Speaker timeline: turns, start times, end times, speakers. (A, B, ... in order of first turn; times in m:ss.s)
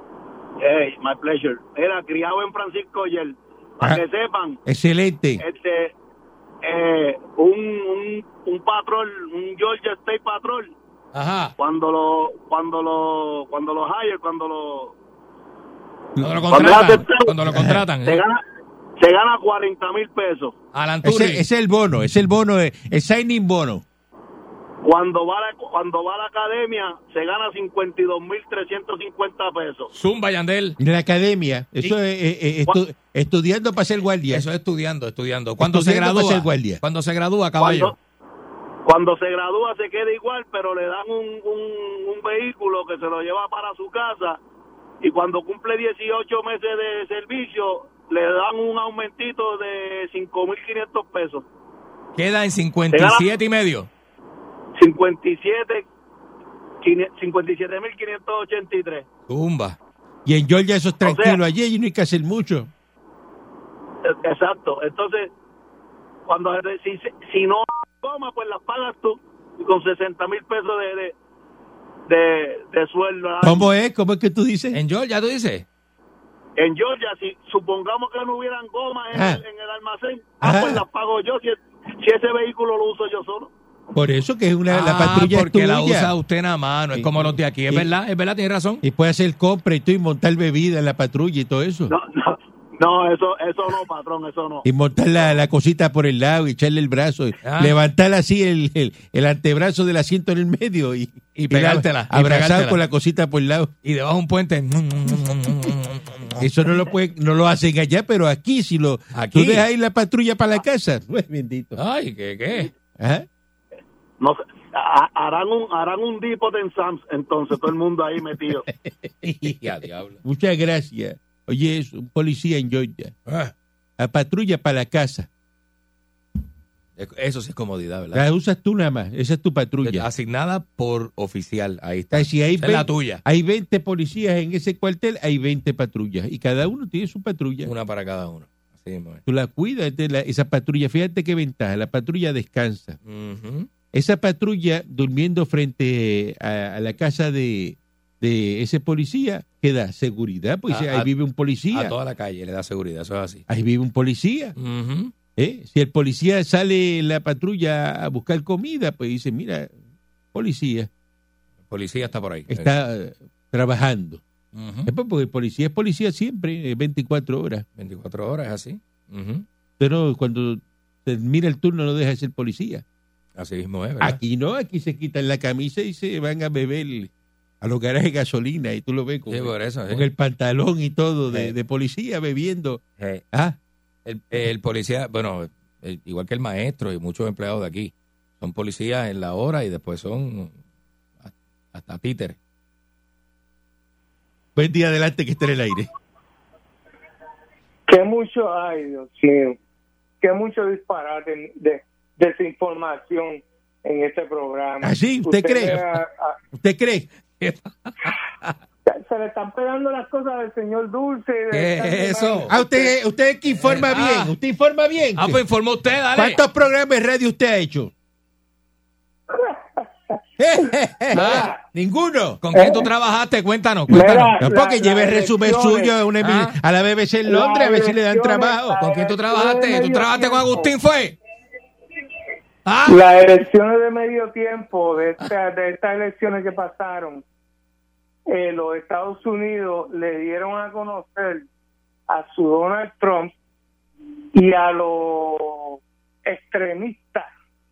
0:00.6-0:04.6 A
0:04.6-0:05.4 B
0:05.4-0:05.9 A
0:06.6-0:10.8 A
0:11.1-0:11.5 C
0:11.6-0:15.0 A
0:16.2-0:16.4 B
0:16.2-0:18.2 C
0:16.5-0:17.4 A
0:17.5-0:17.8 B
0:18.0-0:18.4 A
0:19.0-0:20.6 A
0:20.7-0:21.4 C
0:21.0-0:23.8 B
0:24.8-0:29.9 A
0:29.9-0:30.8 C
0:30.8-0:34.4 B
0:34.3-0:37.9 C
0:35.6-0:36.8 B
0:37.6-0:37.9 A
0:38.9-0:44.4 A
0:45.0-0:51.4 A
0:52.2-0:53.9 C
0:52.9-0:53.3 A
0:54.8-0:55.9 A
0:56.8-0:59.1 A
0:59.3-0:59.8 C
1:00.2-1:02.7 B
1:01.0-1:01.4 A
1:04.0-1:05.3 A
1:06.3-1:11.1 A
1:12.1-1:13.7 A
1:13.4-1:14.8 B
1:14.7-1:15.6 C
1:16.6-1:23.5 A
1:19.1-1:19.4 B
1:20.4-1:20.8 B
1:23.9-1:26.1 B
1:24.7-1:28.8 C
1:26.9-1:27.9 B
1:28.8-1:31.9 B
1:31.9-1:34.6 A
1:34.6-1:43.7 B
1:37.4-1:37.8 C
1:41.4-1:42.8 C
1:43.8-1:46.4 C
1:46.4-1:51.8 B
1:49.1-1:49.6 C
1:51.8-1:52.7 C
1:53.0-1:53.3 B
1:54.2-1:58.7 A
1:59.2-1:59.6 B
1:59.3-2:00.2 C
2:00.2-2:03.1 B
2:03.3-2:03.5 C
2:04.0-2:05.3 B
2:07.0-2:08.2 C
2:08.1-2:10.1 B
2:09.8-2:13.2 C
2:12.1-2:17.7 B
2:17.6-2:19.2 C
2:19.3-2:23.0 B
2:23.0-2:23.7 C
2:23.9-2:31.9 B
2:30.7-2:31.1 C
2:31.7-2:33.4 C
2:33.5-2:34.6 B
2:34.6-2:35.1 C
2:35.4-2:39.7 B
2:40.3-2:40.9 B
2:41.7-2:42.7 C
2:42.5-2:44.2 B
2:44.5-2:44.9 C
2:44.9-2:47.6 B
2:47.8-2:49.4 C
2:49.8-2:52.8 B
2:53.4-2:54.2 C
2:54.0-3:03.6 B
2:59.3-3:00.1 C
3:03.0-3:03.2 C
3:04.1-3:10.6 C
3:11.2-3:12.4 C
3:14.6-3:15.9 B
3:17.9-3:19.6 D
3:20.2-3:26.4 D
3:24.8-3:25.8 B
3:26.6-3:27.1 B
3:27.4-3:28.6 C
3:28.9-3:32.9 D
3:31.5-3:32.5 C
3:32.5-3:35.4 B
3:33.6-3:34.3 C
3:35.2-3:36.4 C
3:36.1-3:37.9 B
3:39.3-3:39.9 D
3:40.4-3:42.4 B
3:41.1-3:41.5 C
3:41.1-3:41.6 D
3:42.4-3:44.4 C
3:42.5-3:42.9 D
3:43.9-3:45.9 D
3:44.4-3:48.8 B
3:46.2-3:46.6 C
3:47.3-3:50.7 D
3:48.8-3:51.2 C
3:52.6-3:53.0 C
3:52.9-3:57.2 D
3:58.3-4:01.5 D
4:02.1-4:03.3 D
4:04.4-4:07.3 D